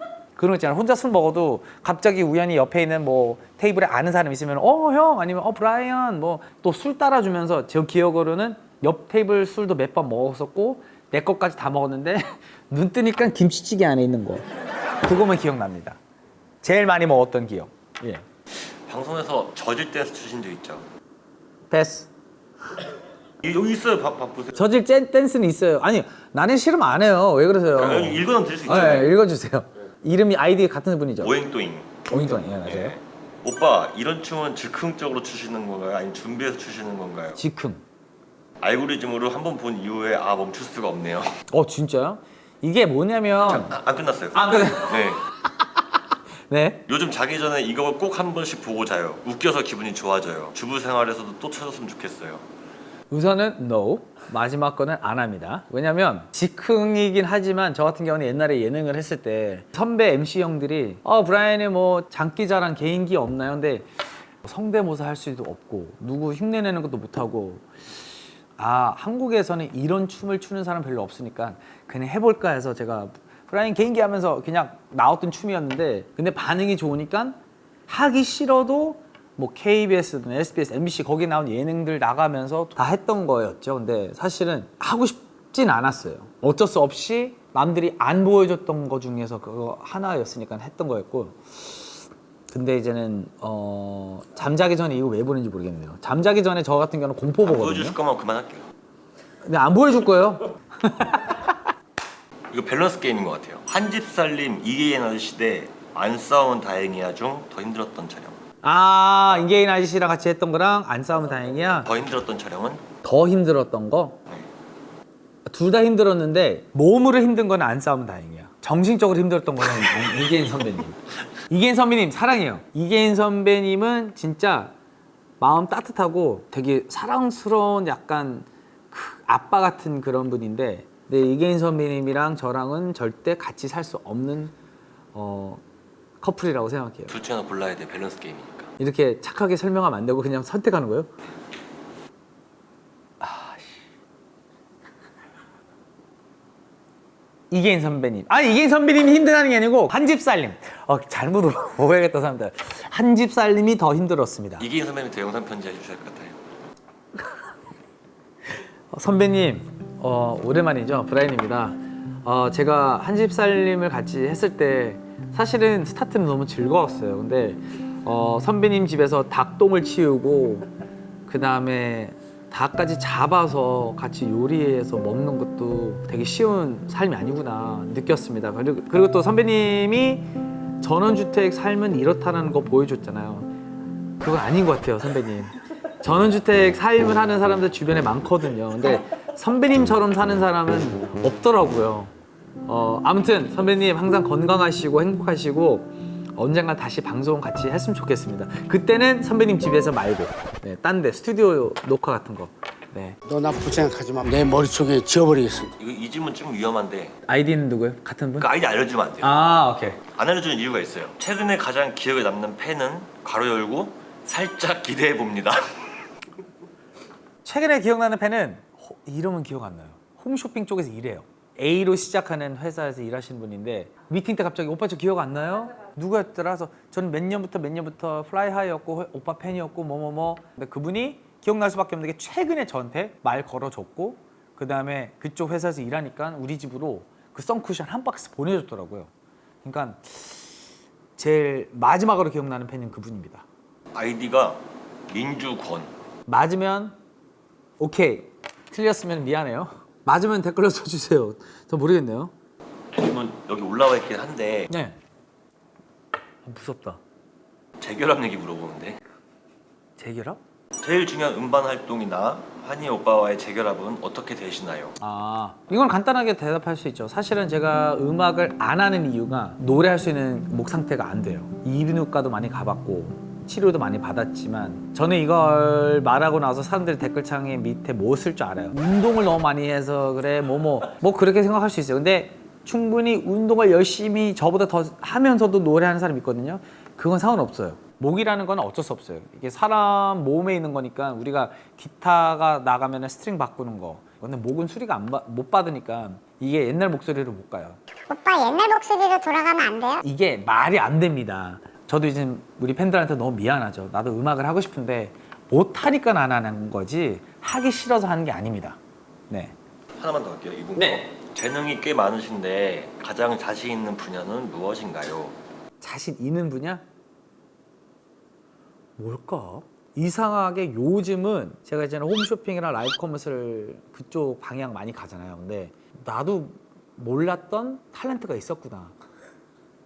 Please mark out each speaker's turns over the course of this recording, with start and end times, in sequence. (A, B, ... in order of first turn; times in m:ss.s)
0:00.4-0:14.5 A
0:15.0-0:16.0 A
0:16.6-0:18.2 A
0:18.5-0:20.9 B
0:21.7-0:22.1 A
0:23.4-0:24.6 B
0:24.5-0:31.3 A
0:27.7-0:29.1 B
0:31.2-0:37.4 B
0:32.1-0:33.0 A
0:37.4-0:37.8 A
0:38.6-0:41.4 B
0:41.5-0:43.8 A
0:43.4-0:45.2 B
0:44.3-0:45.1 A
0:46.5-0:46.8 A
0:46.9-0:52.4 B
0:53.1-1:03.9 A
1:04.4-1:07.7 A
1:08.6-1:31.9 A
1:32.5-1:38.0 A
1:37.4-1:38.7 B
1:39.4-1:41.6 A
1:42.5-1:48.4 B
1:48.6-1:51.9 A
1:51.8-1:52.8 B
1:53.0-1:54.2 A
1:55.5-2:04.7 A
2:05.4-2:14.5 A
2:15.1-2:15.6 A
2:16.2-2:17.2 A
2:17.1-2:18.7 B
2:18.8-2:21.1 A
2:23.2-2:23.8 A
2:27.5-2:34.7 A
2:34.6-2:36.4 B
2:38.9-2:50.7 A
2:51.3-3:03.5 A
3:04.2-3:12.1 A
3:12.6-3:23.2 A
3:23.2-3:25.7 C
3:25.8-3:27.2 B
3:27.2-3:28.5 A
3:28.4-3:29.4 B
3:29.2-3:30.0 A
3:30.1-3:35.6 B
3:37.4-3:59.1 A
3:59.6-4:00.5 A
4:01.2-4:03.4 A
4:03.9-4:05.9 B
4:06.3-4:07.0 A
4:07.8-4:12.3 A
4:12.9-4:14.7 B
4:14.7-4:15.0 A
4:16.4-4:17.0 A
4:17.8-4:19.0 B
4:20.0-4:20.4 A
4:20.8-4:25.0 B
4:25.0-4:57.8 A
4:58.0-5:00.0 D
5:00.0-5:08.8 A
5:10.0-5:15.4 B
5:10.8-5:11.0 A
5:15.8-5:16.8 A
5:19.0-5:28.9 A